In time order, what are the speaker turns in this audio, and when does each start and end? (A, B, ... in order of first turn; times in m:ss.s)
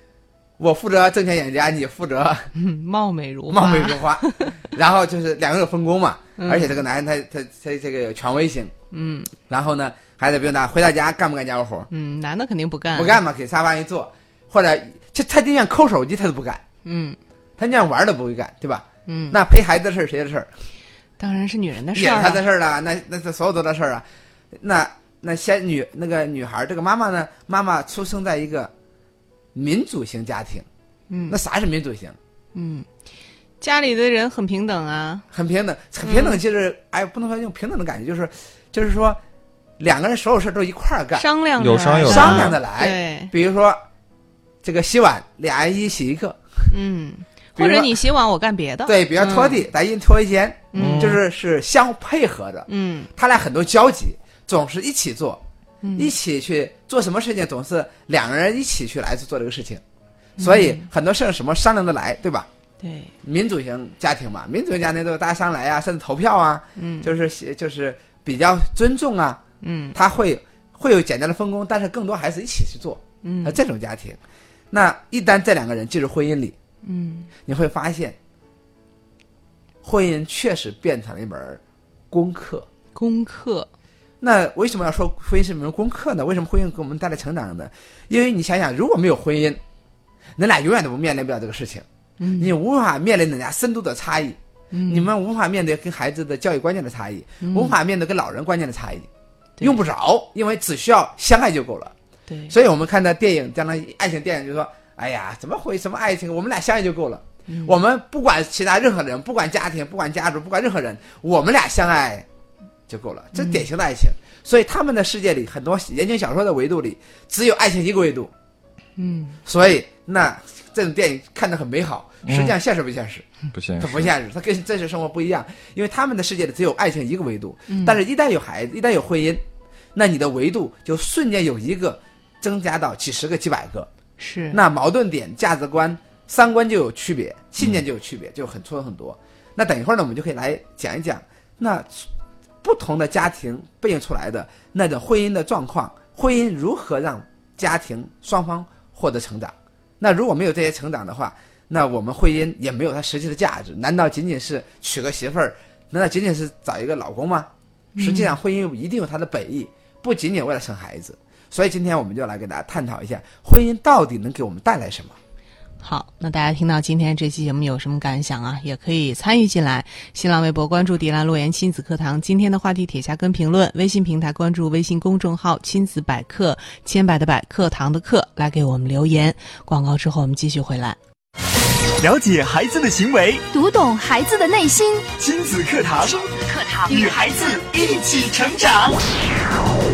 0:00.6-0:02.5 A
0:02.5-0:04.6 B
0:03.5-0:08.7 A
0:06.4-0:06.8 B
0:08.9-0:09.3 B
0:09.5-0:11.9 A
0:11.9-0:13.2 B
0:12.9-0:16.6 A
0:16.8-0:17.2 B
0:17.6-0:20.5 A
0:19.1-0:19.4 B
0:21.2-0:22.4 B
0:21.9-0:28.7 A
0:29.5-0:30.7 A
0:31.1-0:31.4 B
0:31.3-0:32.2 A
0:32.5-0:32.9 B
0:33.6-0:35.2 B
0:35.3-0:39.2 A
0:36.0-0:36.4 B
0:39.8-0:41.2 A
0:41.1-0:43.3 B
0:41.6-0:42.6 C
0:42.0-0:43.8 A
0:44.6-0:46.7 A
0:46.7-0:49.6 B
0:47.6-0:48.0 A
0:48.8-0:55.4 A
0:50.7-0:51.2 B
0:50.8-0:51.2 C
0:52.7-0:53.1 B
0:55.8-0:56.1 B
0:56.0-0:59.8 A
1:00.4-1:00.9 B
1:00.4-1:02.5 A
1:02.8-1:03.1 B
1:03.2-1:09.4 A
1:06.8-1:07.1 B
1:09.6-1:10.0 B
1:09.9-1:14.2 A
1:13.2-1:13.6 B
1:14.7-1:16.6 A
1:16.8-1:17.3 B
1:17.5-1:18.2 A
1:19.8-1:22.7 A
1:22.9-1:23.7 B
1:24.2-1:29.6 A
1:30.4-1:31.8 A
1:32.2-1:32.5 B
1:32.4-1:34.4 A
1:34.7-1:35.1 B
1:34.9-1:39.1 A
1:37.4-1:37.7 B
1:39.6-1:41.9 A
1:42.3-1:42.5 B
1:42.5-1:52.2 A
1:47.5-1:47.8 B
1:52.9-1:58.3 A
1:53.3-1:53.6 B
1:59.0-1:59.4 B
1:59.4-2:03.2 A
2:02.2-2:02.5 C
2:03.5-2:04.1 C
2:03.8-2:09.4 A
2:07.7-2:08.0 B
2:09.9-2:13.9 A
2:14.2-2:14.6 B
2:14.5-2:22.1 A
2:22.6-2:45.2 A
2:37.9-2:38.4 B
2:45.8-3:01.0 B
3:02.0-3:03.5 D
3:03.5-3:05.1 E
3:05.2-3:06.3 D
3:06.0-3:07.0 E
3:06.8-3:09.0 D